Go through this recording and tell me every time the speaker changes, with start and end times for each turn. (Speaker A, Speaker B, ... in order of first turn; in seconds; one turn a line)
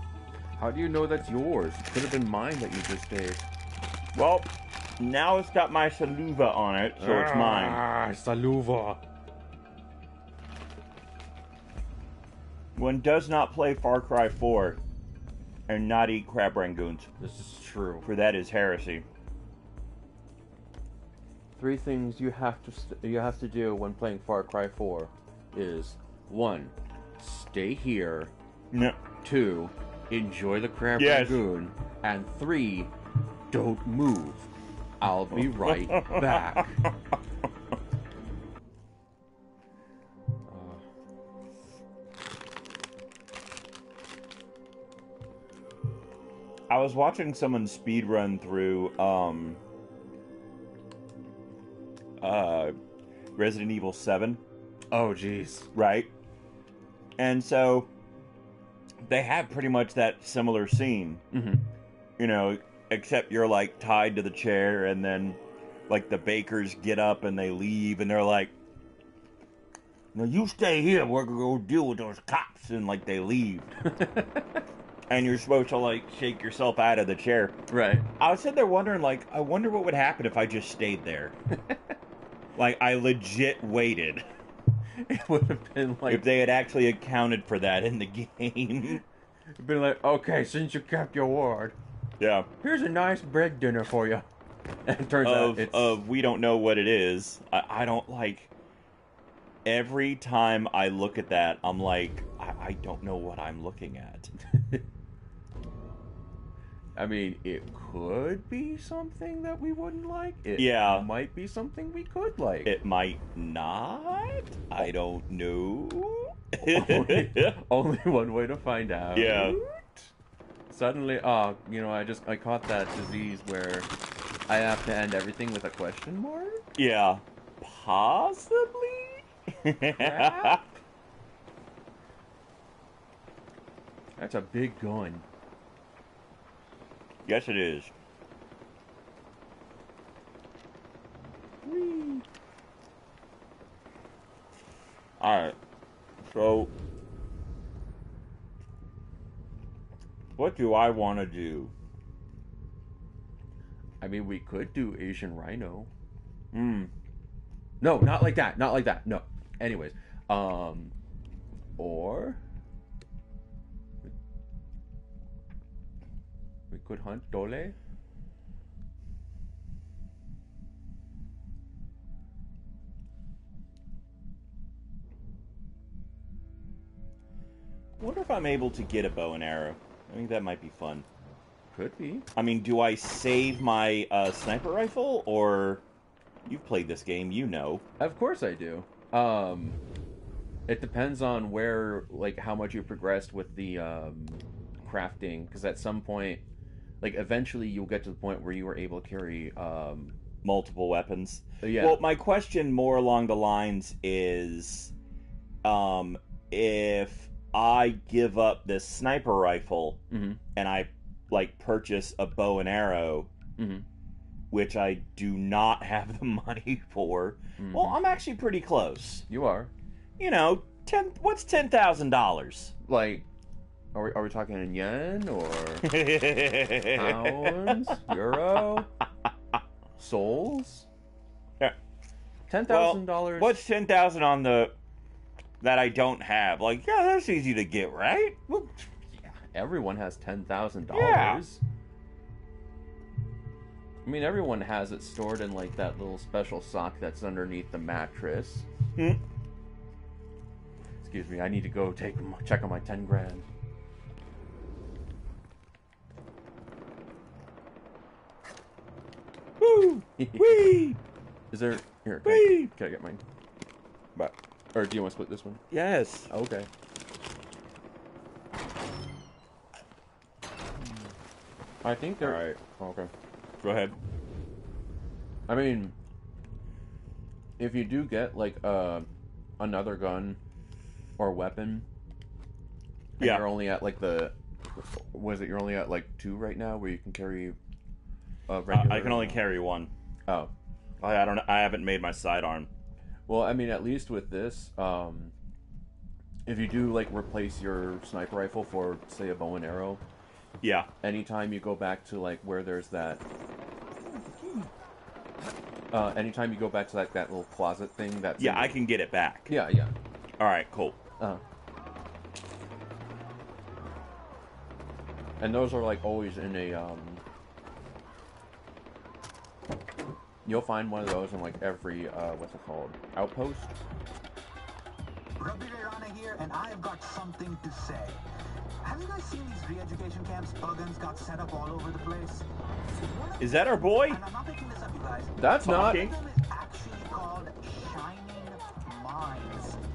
Speaker A: 0.6-3.4
Speaker B: 4.1-7.8
Speaker A: 7.0-9.0
Speaker B: 12.8-14.8
Speaker B: 15.7-17.1
Speaker A: 17.2-18.1
Speaker B: 18.0-19.0
Speaker A: 21.6-28.3
Speaker B: 28.7-29.0
Speaker A: 29.2-32.9
Speaker B: 31.0-31.4
Speaker A: 33.5-34.5
Speaker A: 35.0-36.8
Speaker B: 35.3-36.9
Speaker A: 40.5-40.8
Speaker B: 46.7-49.6
Speaker B: 52.2-52.7
Speaker B: 53.4-54.4
Speaker A: 54.9-55.7
Speaker B: 55.7-56.1
Speaker B: 57.2-57.9
Speaker B: 59.0-61.2
Speaker A: 61.3-61.7
Speaker B: 62.2-68.5
Speaker B: 70.1-73.7
Speaker A: 73.8-74.6
Speaker B: 75.1-77.6
Speaker A: 77.7-78.1
Speaker B: 78.2-81.3
Speaker A: 81.5-81.8
Speaker B: 82.5-84.3
Speaker A: 84.9-86.3
Speaker B: 86.1-89.0
Speaker A: 89.6-91.8
Speaker B: 92.2-92.5
Speaker A: 92.6-94.2
Speaker A: 94.8-96.0
Speaker B: 95.2-98.5
Speaker B: 99.6-104.3
Speaker A: 104.5-104.8
Speaker A: 106.9-112.7
Speaker B: 110.5-111.1
Speaker B: 112.6-117.6
Speaker A: 116.6-120.1
Speaker B: 119.1-119.6
Speaker A: 120.7-123.9
Speaker A: 124.5-126.6
Speaker B: 126.8-128.7
Speaker A: 128.5-129.2
Speaker B: 129.6-130.6
Speaker A: 129.9-130.8
Speaker A: 134.2-135.2
Speaker B: 137.2-137.9
Speaker A: 141.6-142.2
Speaker B: 145.2-145.6
Speaker B: 146.2-146.7
Speaker B: 150.4-151.7
Speaker A: 154.0-155.9
Speaker A: 156.5-156.9
Speaker A: 157.8-160.9
Speaker A: 161.8-162.4
Speaker A: 166.7-167.7
Speaker B: 178.0-181.1
Speaker A: 181.7-182.3
Speaker B: 182.3-185.8
Speaker B: 186.4-187.8
Speaker A: 188.0-189.8
Speaker A: 190.7-196.4
Speaker A: 197.0-200.2
Speaker B: 200.4-204.9
Speaker A: 201.6-202.0
Speaker B: 205.6-210.0
Speaker A: 210.1-210.4
Speaker B: 210.5-213.3
Speaker A: 213.6-213.8
Speaker B: 214.5-219.2
Speaker A: 217.6-218.0
Speaker A: 219.3-219.7
Speaker B: 220.2-222.7
Speaker A: 222.8-223.3
Speaker A: 223.9-225.8
Speaker B: 225.8-228.1
Speaker A: 226.9-228.9
Speaker A: 230.0-230.9
Speaker A: 232.5-233.6
Speaker B: 232.7-234.7
Speaker B: 235.6-238.4
Speaker A: 238.5-241.6
Speaker B: 240.9-241.4
Speaker A: 244.0-248.7
Speaker A: 251.0-253.5
Speaker B: 259.6-261.0
Speaker A: 260.2-260.8
Speaker A: 261.5-263.2
Speaker B: 262.2-262.7
Speaker A: 264.7-265.6
Speaker B: 265.7-266.3
Speaker A: 266.3-266.7
Speaker A: 271.8-273.1
Speaker B: 272.2-272.5
Speaker B: 273.6-274.0
Speaker A: 275.5-275.9
Speaker A: 277.6-279.1
Speaker A: 279.6-280.4
Speaker A: 281.2-281.9
Speaker A: 283.2-287.6
Speaker B: 283.2-283.5
Speaker A: 288.5-289.4
Speaker B: 288.7-289.9
Speaker B: 291.0-292.7
Speaker A: 293.3-295.3
Speaker A: 296.4-300.0
Speaker B: 300.6-300.9
Speaker A: 301.0-303.2
Speaker A: 304.1-304.7
Speaker A: 305.9-308.8
Speaker B: 308.4-309.5
Speaker A: 309.5-309.9
Speaker B: 310.4-311.0
Speaker A: 315.4-317.2
Speaker A: 320.4-323.8
Speaker C: 325.4-328.2
Speaker C: 328.8-339.8
Speaker B: 333.4-334.2
Speaker A: 335.4-336.0
Speaker B: 335.6-336.2